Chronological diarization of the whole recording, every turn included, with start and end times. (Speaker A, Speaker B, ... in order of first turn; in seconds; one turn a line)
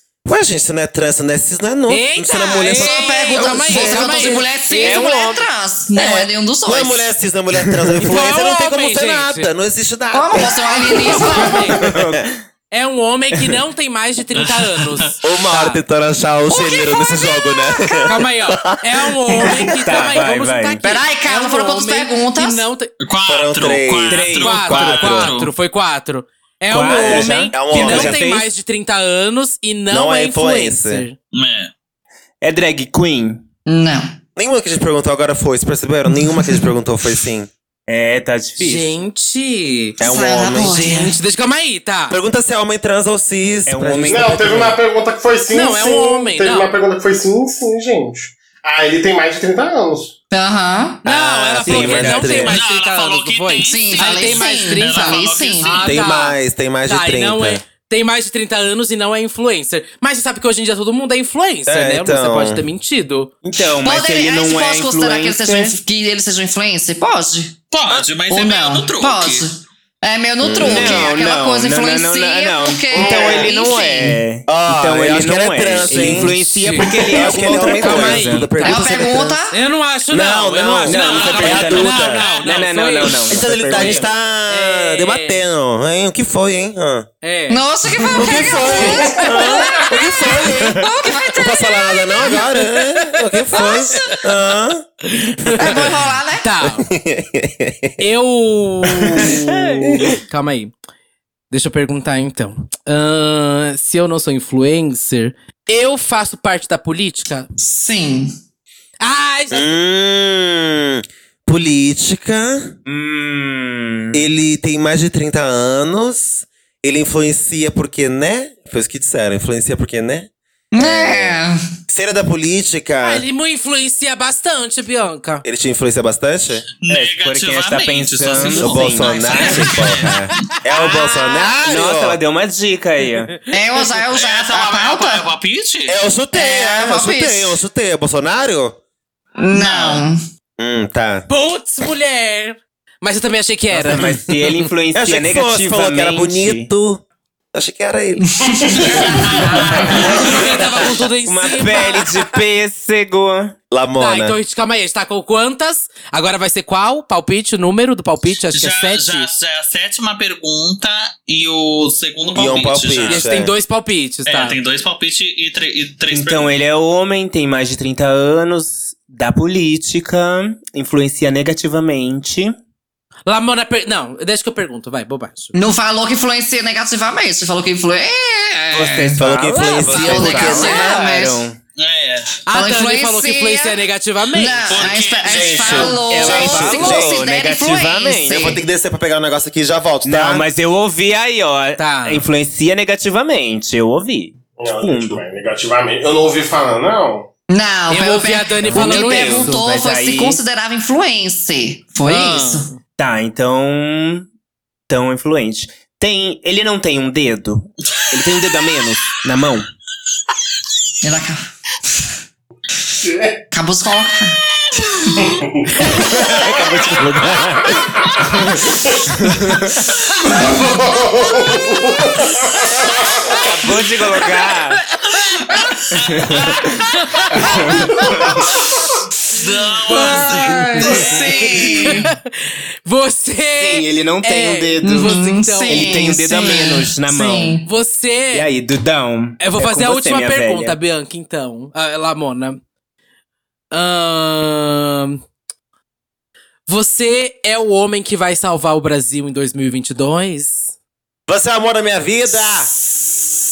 Speaker A: 0.2-4.5
Speaker B: 1.9-5.1
Speaker C: 2.6-7.1
Speaker D: 4.8-5.5
Speaker A: 5.9-12.2
Speaker D: 7.6-8.0
Speaker B: 8.1-9.5
Speaker C: 10.1-11.7
Speaker B: 11.3-11.8
Speaker D: 11.7-12.4
Speaker B: 12.7-15.8
Speaker E: 14.3-15.1
Speaker A: 15.2-20.2
Speaker B: 18.1-22.9
Speaker D: 19.4-20.8
Speaker C: 20.8-22.7
Speaker E: 23.0-25.5
Speaker A: 23.3-25.4
Speaker D: 24.1-24.6
Speaker B: 24.3-31.2
Speaker D: 26.7-28.5
Speaker A: 26.9-28.3
Speaker A: 29.9-31.1
Speaker E: 31.3-31.7
Speaker D: 32.4-33.4
Speaker C: 33.7-34.1
Speaker A: 34.4-37.5
Speaker D: 37.9-39.0
Speaker B: 38.6-40.0
Speaker A: 40.0-40.9
Speaker C: 40.0-41.2
Speaker B: 40.7-42.1
Speaker A: 42.1-44.7
Speaker D: 43.7-44.8
Speaker F: 44.1-50.1
Speaker B: 45.5-46.7
Speaker C: 50.3-51.0
Speaker B: 51.0-63.3
Speaker D: 51.1-52.6
Speaker A: 51.5-52.6
Speaker E: 52.5-56.0
Speaker C: 53.6-55.8
Speaker A: 55.8-57.7
Speaker A: 61.7-62.7
Speaker D: 63.4-65.8
Speaker C: 63.8-74.2
Speaker E: 67.7-69.5
Speaker A: 70.4-71.1
Speaker D: 70.6-79.3
Speaker A: 73.0-73.5
Speaker A: 74.5-79.4
Speaker B: 75.9-85.4
Speaker C: 78.6-79.6
Speaker A: 80.1-82.3
Speaker D: 80.8-84.1
Speaker E: 80.9-83.1
Speaker A: 83.2-87.1
Speaker B: 87.2-89.8
Speaker C: 87.5-92.4
Speaker A: 88.1-94.8
Speaker F: 88.9-89.2
Speaker B: 92.3-94.2
Speaker B: 95.0-96.9
Speaker C: 95.6-96.5
Speaker A: 95.6-95.9
Speaker A: 96.6-98.0
Speaker B: 98.0-100.7
Speaker A: 99.1-100.1
Speaker B: 101.5-107.5
Speaker C: 107.6-108.3
Speaker B: 109.0-109.7
Speaker A: 109.5-112.7
Speaker D: 112.9-114.2
Speaker A: 114.1-121.4
Speaker C: 120.7-121.6
Speaker A: 121.9-123.2
Speaker B: 123.0-125.4
Speaker A: 125.4-126.7
Speaker E: 126.8-130.5
Speaker D: 126.9-129.7
Speaker A: 128.3-132.2
Speaker B: 129.4-131.0
Speaker D: 131.6-133.3
Speaker B: 133.2-133.9
Speaker C: 133.5-135.3
Speaker E: 134.1-136.0
Speaker A: 135.9-138.8
Speaker C: 136.3-137.6
Speaker C: 139.4-140.2
Speaker E: 139.5-140.1
Speaker A: 140.6-141.3
Speaker B: 141.3-144.2
Speaker D: 143.7-146.7
Speaker A: 144.9-150.9
Speaker F: 148.4-150.0
Speaker C: 148.4-150.0
Speaker E: 149.1-150.1
Speaker B: 149.7-152.2
Speaker D: 151.2-153.6
Speaker A: 153.7-154.4
Speaker B: 154.0-159.3
Speaker E: 158.5-163.4
Speaker A: 162.3-163.6
Speaker B: 163.1-164.6
Speaker E: 164.3-166.5
Speaker D: 166.1-172.6
Speaker B: 173.3-175.5
Speaker C: 175.5-181.5
Speaker D: 178.7-181.6
Speaker A: 179.2-181.1
Speaker E: 181.8-182.4
Speaker B: 182.5-184.8
Speaker C: 182.5-183.8
Speaker C: 184.3-188.6
Speaker E: 184.7-186.0
Speaker A: 185.2-187.2
Speaker D: 186.1-188.5
Speaker A: 188.3-190.5
Speaker D: 190.0-195.2
Speaker B: 191.8-192.2
Speaker F: 194.6-197.3
Speaker C: 197.5-202.7
Speaker B: 197.9-199.6
Speaker D: 198.7-200.4
Speaker B: 202.0-202.8
Speaker D: 203.0-204.3
Speaker D: 204.9-209.7
Speaker C: 211.0-211.4
Speaker F: 213.0-213.4
Speaker C: 213.5-214.4
Speaker F: 215.2-216.7
Speaker D: 215.8-220.0
Speaker F: 217.7-219.2
Speaker F: 220.1-223.5
Speaker C: 220.2-220.7
Speaker D: 223.4-224.8
Speaker B: 224.1-224.8
Speaker E: 225.5-226.7
Speaker D: 225.9-226.8
Speaker B: 226.9-228.1
Speaker D: 227.3-228.4
Speaker E: 229.3-231.0
Speaker B: 229.9-231.1
Speaker C: 229.9-232.1
Speaker B: 231.6-236.6
Speaker D: 233.6-237.6
Speaker C: 234.8-237.7
Speaker B: 237.6-238.5
Speaker D: 238.3-240.8
Speaker B: 239.4-242.6
Speaker B: 243.7-245.2
Speaker B: 246.7-250.7
Speaker A: 251.3-252.7